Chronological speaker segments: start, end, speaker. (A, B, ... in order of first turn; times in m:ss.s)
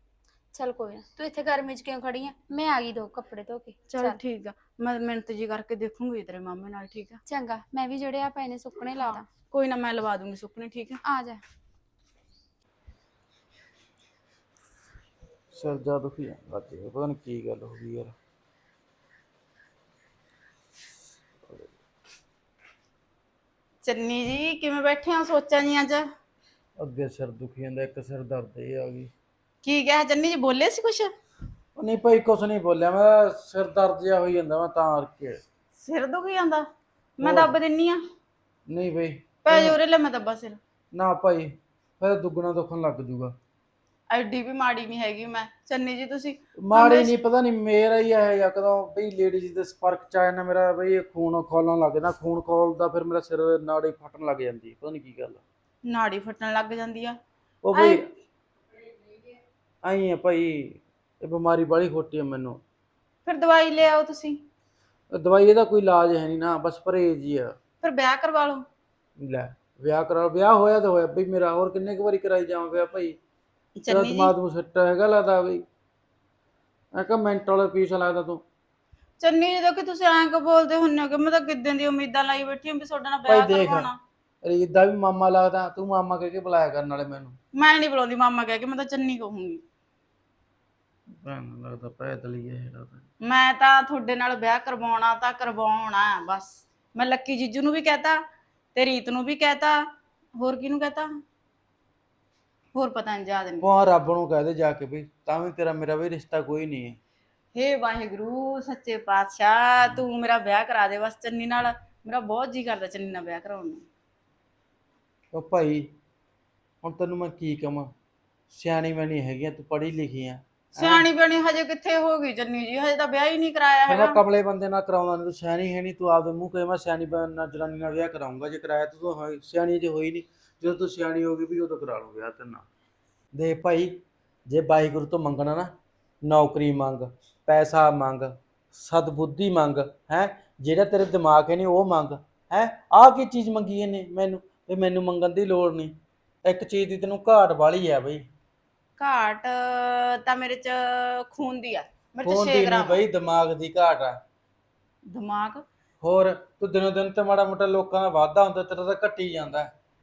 0:00.5-0:04.2 A
0:03.9-0:07.2 B
0:07.3-0:09.2 A
0:09.5-0:11.0 B
0:11.0-0:11.4 A
0:15.5-0:18.1 C
0:23.8-0:26.0 B
0:26.8-0:29.1 C
0:29.6-0:31.1 B
0:31.8-0:35.4 C
0:35.8-0:36.6 B
0:37.2-0:38.0 B
0:37.2-0:37.5 C
0:38.7-0:39.8 C
0:39.5-0:40.6 B
0:40.9-0:43.3 C
0:44.1-0:47.1 B
0:46.6-0:55.4 C
0:55.9-0:57.1 B
0:57.6-0:58.0 C
0:59.8-1:02.6 C
1:03.2-1:04.3 B
1:05.1-1:07.5 C
1:07.8-1:08.6 B
1:09.2-1:13.2 C
1:13.8-1:14.3 B
1:13.9-1:15.6 C
1:16.9-1:18.4 C
1:19.2-1:23.9 B
1:23.3-1:23.9 C
1:24.4-1:27.3 C
1:27.6-1:29.6 B
1:31.2-1:33.0 C
1:33.3-1:38.2 B
1:38.7-1:39.8 B
1:40.4-1:41.1 B
1:42.8-1:43.6 B
1:43.6-1:47.0 C
1:47.5-1:53.8 B
1:55.3-1:55.9 C
1:56.8-1:57.9 C
1:58.5-2:01.0 C
2:00.8-2:04.0 B
2:03.9-2:12.6 C
2:13.3-2:15.7 C
2:16.2-2:28.2 C
2:29.0-2:29.5 B
2:30.2-2:32.9 B
2:32.2-2:34.2 C
2:35.2-2:35.6 B
2:36.0-2:39.7 C